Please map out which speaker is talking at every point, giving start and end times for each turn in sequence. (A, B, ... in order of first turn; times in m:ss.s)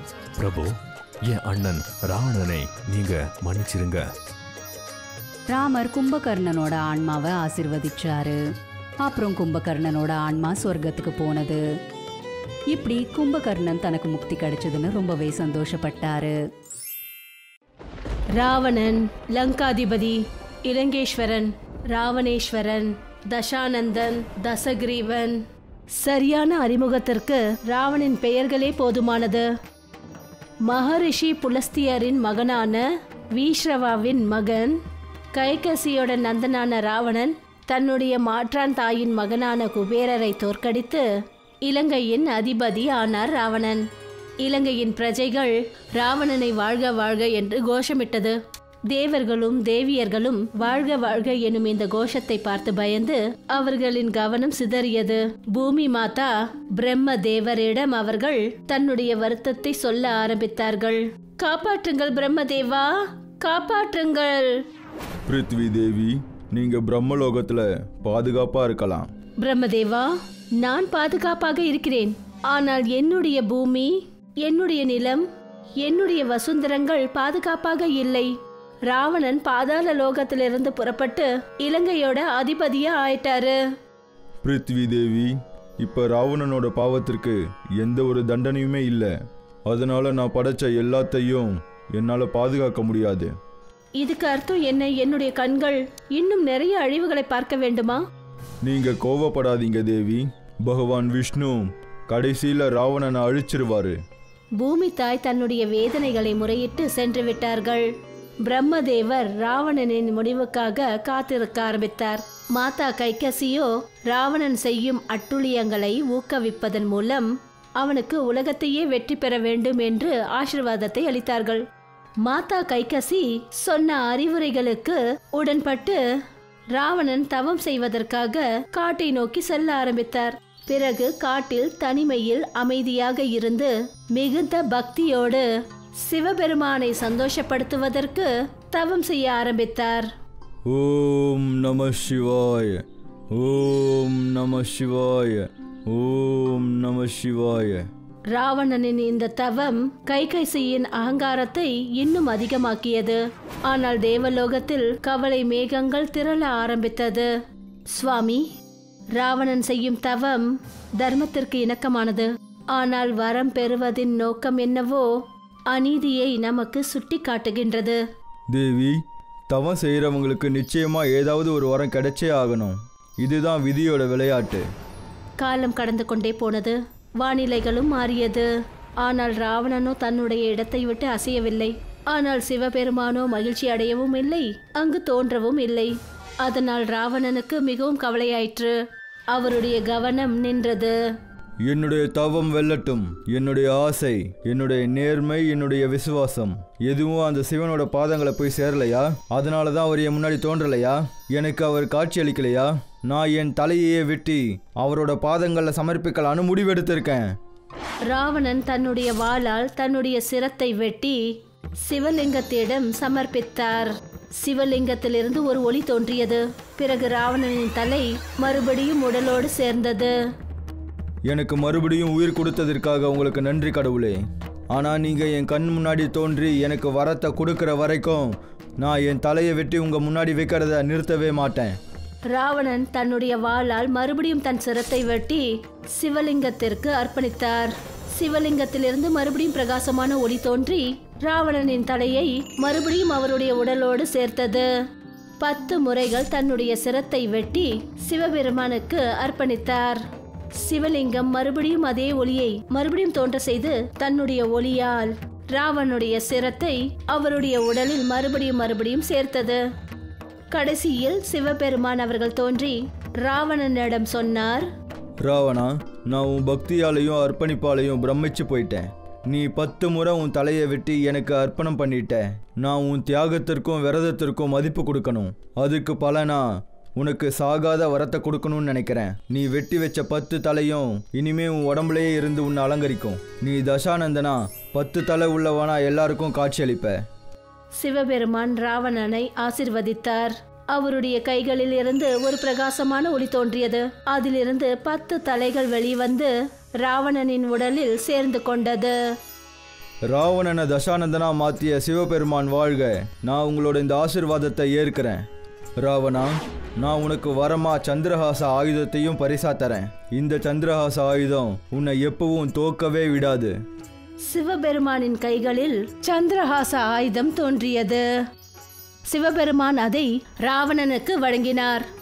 0:00.4-0:00.7 A
0:01.3-0:04.0 A
0:05.5-0:08.4 B
0:09.0-0:11.6 B
0:12.7-0:16.4 B
0:18.4-0:25.4 C
0:26.0-0:29.5 C
0:30.7-0:32.8 C
0:33.4-0:34.8 C
0:35.3-0:41.0 C
0:41.7-0:43.8 C
0:44.4-0:48.4 C
0:48.9-1:02.9 C
1:03.4-1:04.5 C
1:05.3-1:09.1 D
1:09.4-1:10.1 C
1:10.6-1:13.9 C
1:14.4-1:15.2 C
1:15.8-1:18.3 C
1:18.9-1:23.6 C
1:24.4-1:29.1 D
1:29.7-1:33.3 D
1:34.0-1:38.0 C
1:38.6-1:44.0 D
1:44.6-1:47.9 C
1:48.5-2:01.6 C
2:02.2-2:06.0 C
2:06.8-2:15.4 C
2:16.1-2:20.1 C
2:20.7-2:22.8 D
2:23.3-2:27.8 D
2:28.3-2:37.3 C
2:37.9-2:38.4 C
2:39.2-2:40.5 C
2:41.0-2:45.1 C
2:45.7-2:48.0 C
2:48.5-2:54.6 D
2:55.4-2:58.5 C
2:59.0-3:05.9 C
3:06.4-3:08.7 C
3:09.3-3:11.0 C
3:11.7-3:27.3 D
3:28.1-3:31.2 C
3:31.9-3:33.9 C
3:34.4-3:40.1 C
3:41.3-3:44.2 D
3:44.7-3:51.8 D
3:52.3-3:55.4 C
3:56.0-4:04.7 C
4:05.4-4:10.0 C
4:10.6-4:19.6 C
4:20.5-4:24.7 C
4:25.2-4:36.4 D
4:37.0-4:47.0 D
4:47.8-4:56.3 C
4:56.8-4:58.9 C
5:00.1-5:05.2 D
5:05.8-5:13.5 D
5:14.3-5:18.0 C
5:19.1-5:21.8 C